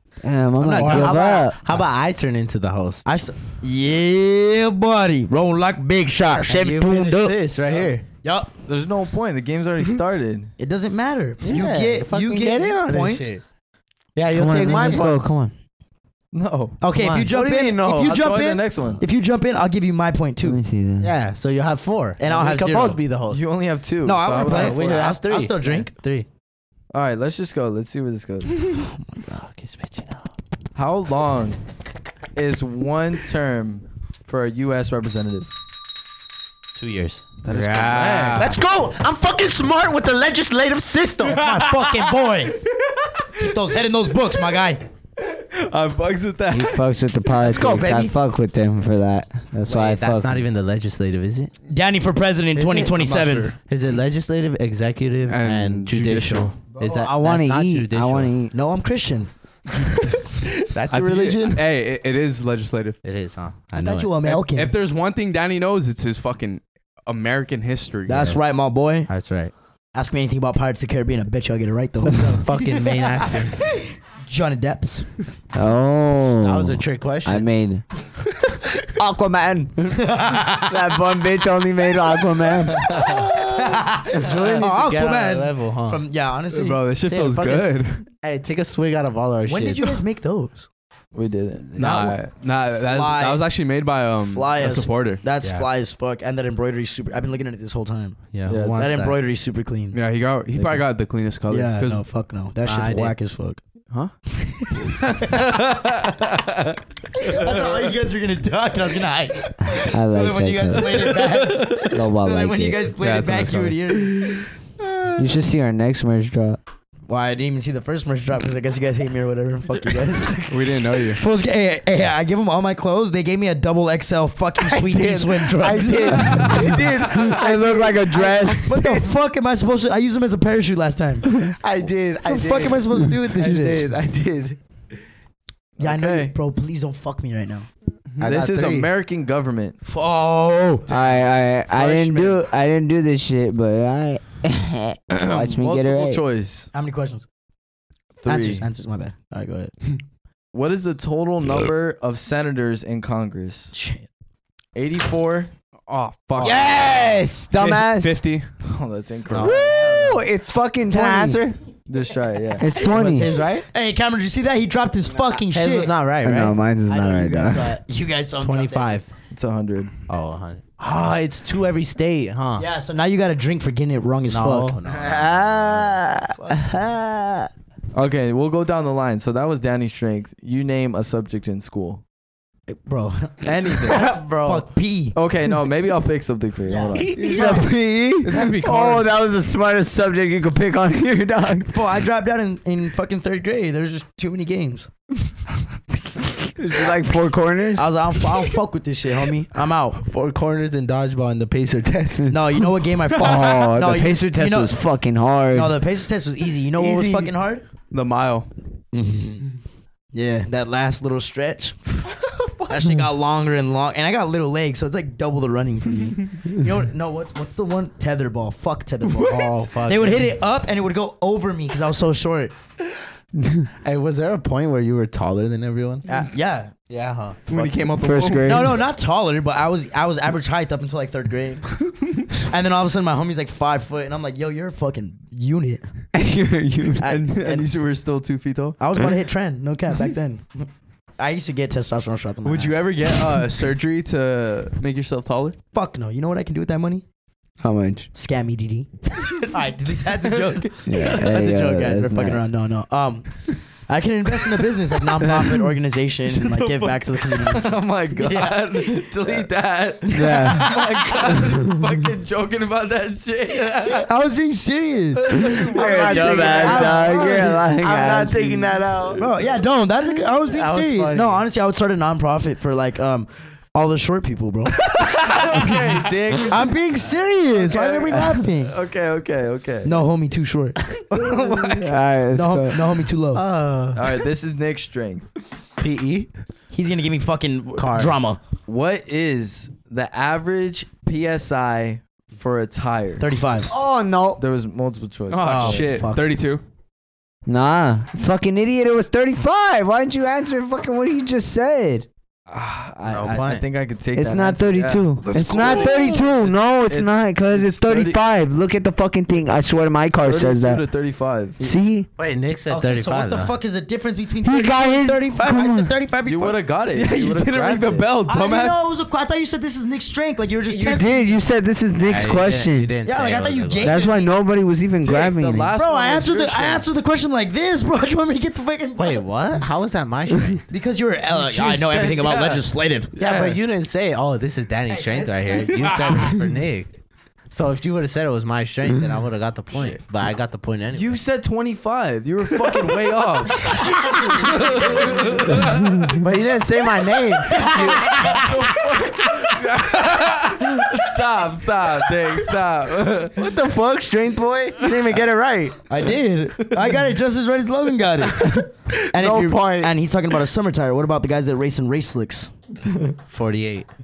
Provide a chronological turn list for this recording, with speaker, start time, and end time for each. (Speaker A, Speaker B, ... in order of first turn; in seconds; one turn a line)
Speaker A: 0.2-1.6
Speaker B: 0.6-1.4
Speaker C: 0.8-3.0
Speaker B: 3.0-7.3
Speaker A: 6.3-7.3
Speaker C: 6.3-8.0
Speaker B: 8.2-8.5
Speaker D: 8.7-10.5
Speaker B: 10.6-13.3
Speaker C: 11.4-13.4
Speaker C: 14.2-15.3
Speaker A: 14.3-15.5
Speaker B: 14.5-15.2
Speaker D: 16.3-17.2
Speaker B: 16.8-20.6
Speaker C: 16.9-18.2
Speaker D: 18.1-19.0
Speaker A: 20.4-21.1
Speaker C: 21.0-23.4
Speaker B: 22.2-23.0
Speaker D: 23.3-25.1
Speaker B: 24.0-25.9
Speaker C: 24.4-26.3
Speaker D: 26.9-28.6
Speaker C: 29.3-30.3
Speaker D: 30.7-31.6
Speaker D: 32.3-35.5
Speaker C: 36.7-37.3
Speaker D: 37.4-38.6
Speaker E: 37.4-38.6
Speaker C: 38.3-41.6
Speaker E: 41.3-43.6
Speaker B: 41.3-42.6
Speaker B: 43.4-44.8
Speaker E: 45.2-46.9
Speaker A: 46.5-50.4
Speaker C: 47.4-48.2
Speaker C: 49.6-51.5
Speaker B: 51.7-53.6
Speaker C: 52.5-58.3
Speaker E: 55.3-56.5
Speaker A: 56.8-58.5
Speaker B: 58.5-60.0
Speaker C: 60.7-61.6
Speaker E: 60.9-63.0
Speaker C: 63.0-64.2
Speaker B: 63.7-64.7
Speaker E: 64.2-68.4
Speaker B: 68.1-69.1
Speaker C: 69.1-69.5
Speaker B: 69.9-75.2
Speaker C: 72.0-73.6
Speaker A: 75.5-77.8
Speaker C: 76.3-77.5
Speaker A: 79.0-83.2
Speaker B: 79.8-80.8
Speaker C: 82.8-86.0
Speaker B: 83.6-86.8
Speaker E: 86.5-88.0
Speaker C: 87.0-90.0
Speaker B: 89.5-90.7
Speaker D: 91.1-92.1
Speaker C: 91.7-92.2
Speaker E: 91.8-95.2
Speaker B: 92.8-93.5
Speaker B: 94.2-100.0
Speaker C: 95.4-95.7
Speaker C: 98.3-99.2
Speaker D: 98.5-98.9
Speaker E: 99.9-102.0
Speaker A: 100.5-100.8
Speaker B: 101.5-103.6
Speaker C: 102.6-103.2
Speaker B: 104.3-105.7
Speaker E: 105.1-106.7
Speaker B: 107.2-114.5
Speaker A: 109.8-112.8
Speaker E: 111.0-111.9
Speaker E: 113.0-113.8
Speaker A: 115.2-116.6
Speaker B: 117.1-126.8
Speaker E: 120.5-121.2
Speaker C: 124.6-129.0
Speaker A: 126.2-128.9
Speaker B: 128.1-131.2
Speaker C: 131.6-134.6
Speaker B: 132.2-133.7
Speaker A: 133.3-133.9
Speaker D: 135.8-136.3
Speaker B: 135.8-137.7
Speaker D: 138.2-139.8
Speaker C: 138.2-138.9
Speaker B: 139.8-142.4
Speaker A: 140.9-146.2
Speaker D: 145.1-146.7
Speaker B: 146.7-147.2
Speaker D: 148.2-148.7
Speaker B: 148.2-149.7
Speaker D: 150.5-153.7
Speaker C: 153.7-154.0
Speaker D: 154.7-155.5
Speaker E: 155.9-156.8
Speaker D: 156.4-156.9
Speaker A: 156.4-158.2
Speaker B: 156.4-157.2
Speaker E: 157.6-158.5
Speaker D: 158.6-159.8
Speaker B: 159.4-160.2
Speaker A: 159.4-161.4
Speaker C: 160.9-161.6
Speaker D: 161.9-162.7
Speaker A: 162.6-163.3
Speaker C: 162.7-163.7
Speaker B: 163.6-166.0
Speaker C: 165.5-166.6
Speaker A: 166.2-167.8
Speaker B: 166.8-169.0
Speaker C: 168.4-169.1
Speaker D: 169.3-169.9
Speaker C: 170.1-172.7
Speaker B: 172.6-174.8
Speaker C: 174.3-176.0
Speaker A: 174.9-177.5
Speaker B: 176.4-176.6
Speaker D: 177.9-182.0
Speaker B: 182.7-185.2
Speaker D: 183.4-184.1
Speaker C: 183.8-184.7
Speaker D: 185.1-187.3
Speaker B: 186.7-187.7
Speaker C: 187.0-187.7
Speaker A: 187.2-191.7
Speaker E: 188.2-189.2
Speaker B: 191.7-194.9
Speaker A: 196.4-198.1
Speaker B: 197.7-200.0
Speaker C: 200.0-202.4
Speaker B: 202.3-204.8
Speaker A: 203.1-205.8
Speaker E: 203.2-203.5
Speaker B: 205.5-207.6
Speaker C: 206.8-207.3
Speaker E: 207.9-208.5
Speaker B: 208.9-209.5
Speaker B: 210.1-212.1
Speaker C: 212.2-212.9
Speaker B: 212.7-222.5
Speaker C: 219.1-220.3
Speaker C: 223.8-226.1
Speaker B: 226.1-226.7
Speaker C: 226.9-227.4
Speaker E: 227.5-228.8
Speaker A: 227.5-228.8
Speaker B: 228.4-231.7
Speaker B: 232.3-235.8
Speaker A: 236.1-237.2
Speaker B: 237.0-237.7
Speaker E: 237.0-238.8
Speaker B: 238.8-243.4
Speaker E: 242.4-245.6
Speaker B: 245.7-247.0
Speaker A: 247.6-248.1
Speaker B: 248.1-259.5
Speaker A: 250.8-252.4
Speaker E: 256.2-264.1
Speaker D: 257.6-258.5
Speaker B: 260.0-261.3
Speaker A: 260.1-260.7
Speaker B: 264.0-267.5
Speaker E: 265.4-265.6
Speaker D: 265.4-266.2
Speaker A: 265.6-268.8
Speaker C: 265.6-269.2
Speaker B: 269.2-278.7
Speaker C: 270.4-271.4
Speaker E: 274.9-276.5
Speaker D: 275.3-276.7
Speaker D: 277.5-280.0
Speaker B: 279.8-281.6
Speaker E: 281.1-281.8
Speaker D: 281.2-281.5
Speaker A: 281.7-282.9
Speaker B: 282.3-283.4
Speaker C: 283.3-284.0
Speaker D: 283.9-285.3
Speaker C: 285.8-286.3
Speaker B: 286.7-288.4
Speaker C: 287.8-288.3
Speaker D: 288.6-293.2
Speaker B: 293.2-293.7
Speaker A: 293.7-294.4
Speaker D: 294.4-296.0
Speaker E: 295.3-296.6
Speaker B: 295.4-296.3
Speaker A: 297.5-302.1
Speaker D: 302.5-308.2
Speaker C: 303.1-303.6
Speaker A: 304.1-310.8
Speaker E: 305.5-305.8
Speaker B: 305.7-306.1
Speaker D: 310.2-311.7
Speaker A: 311.6-312.1
Speaker C: 312.2-313.6
Speaker B: 312.7-316.6
Speaker A: 314.4-315.9
Speaker D: 316.2-318.1
Speaker E: 316.9-318.9
Speaker B: 318.2-321.4
Speaker A: 320.7-323.0
Speaker C: 322.0-324.0
Speaker B: 323.0-324.3
Speaker A: 323.8-325.7
Speaker D: 325.0-326.9
Speaker B: 325.7-329.2
Speaker C: 329.0-330.6
Speaker B: 330.7-333.1
Speaker D: 331.3-333.6
Speaker C: 333.2-336.9
Speaker B: 334.9-335.9
Speaker C: 337.5-341.2
Speaker D: 340.9-345.7
Speaker E: 344.6-345.7
Speaker C: 346.1-347.7
Speaker B: 347.5-348.5
Speaker D: 347.5-353.4
Speaker E: 349.6-350.6
Speaker C: 353.4-355.9
Speaker B: 355.9-362.5
Speaker C: 359.1-359.9
Speaker C: 363.2-363.9